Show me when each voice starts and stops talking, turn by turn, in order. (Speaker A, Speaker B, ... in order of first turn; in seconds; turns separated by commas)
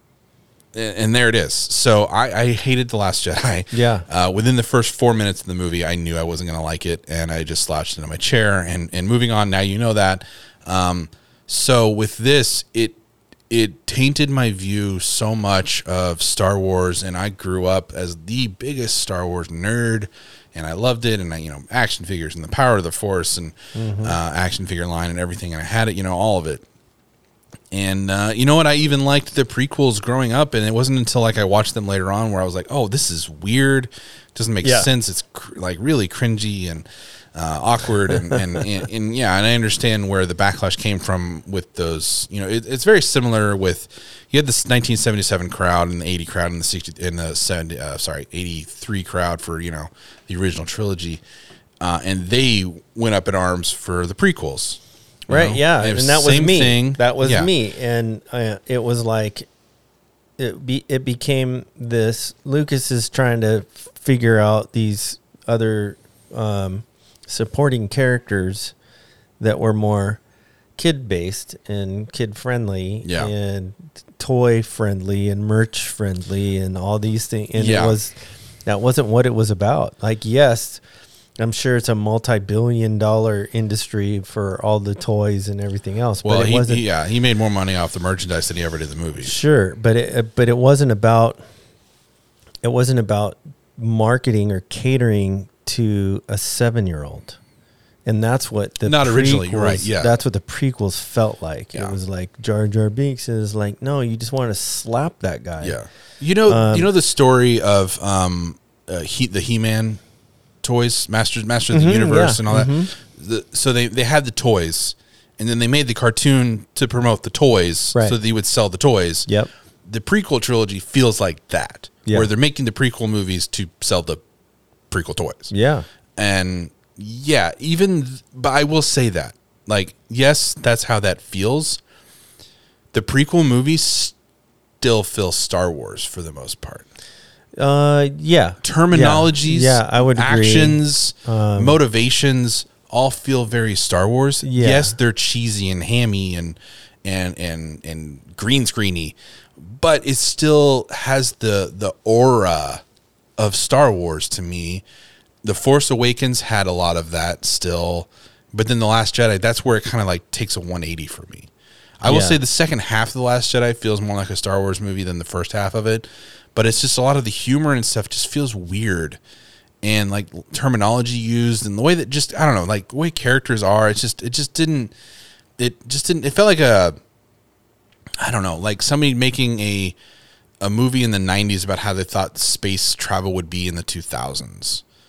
Speaker A: 0.7-13.0, Speaker B: 3.7-4.1, Speaker A: 13.5-26.6, Speaker B: 23.8-24.2, Speaker A: 27.7-51.2, Speaker B: 34.6-34.9, Speaker B: 38.3-38.6, Speaker A: 51.8-57.5, Speaker B: 55.3-59.5, Speaker B: 60.4-68.7, Speaker B: 69.4-70.2, Speaker B: 70.8-78.2, Speaker A: 73.0-73.3, Speaker A: 77.5-78.0, Speaker B: 78.7-80.8, Speaker B: 81.4-86.8, Speaker A: 86.2-89.3, Speaker B: 89.2-91.4, Speaker B: 92.6-97.4, Speaker B: 98.1-105.8, Speaker A: 98.8-100.1, Speaker A: 105.6-110.0, Speaker B: 106.5-106.9, Speaker A: 110.6-119.3, Speaker B: 111.7-112.9, Speaker A: 119.8-124.2, Speaker A: 124.9-125.5, Speaker B: 125.5-125.9, Speaker A: 126.2-131.8, Speaker A: 132.9-134.2, Speaker A: 134.8-136.9, Speaker B: 137.6-141.8, Speaker A: 138.6-152.8, Speaker B: 144.4-145.0, Speaker A: 153.4-154.8, Speaker A: 155.4-161.5, Speaker A: 162.0-169.2, Speaker B: 162.1-162.4, Speaker A: 169.8-174.9, Speaker A: 175.6-177.0, Speaker A: 178.2-180.0, Speaker A: 180.6-184.8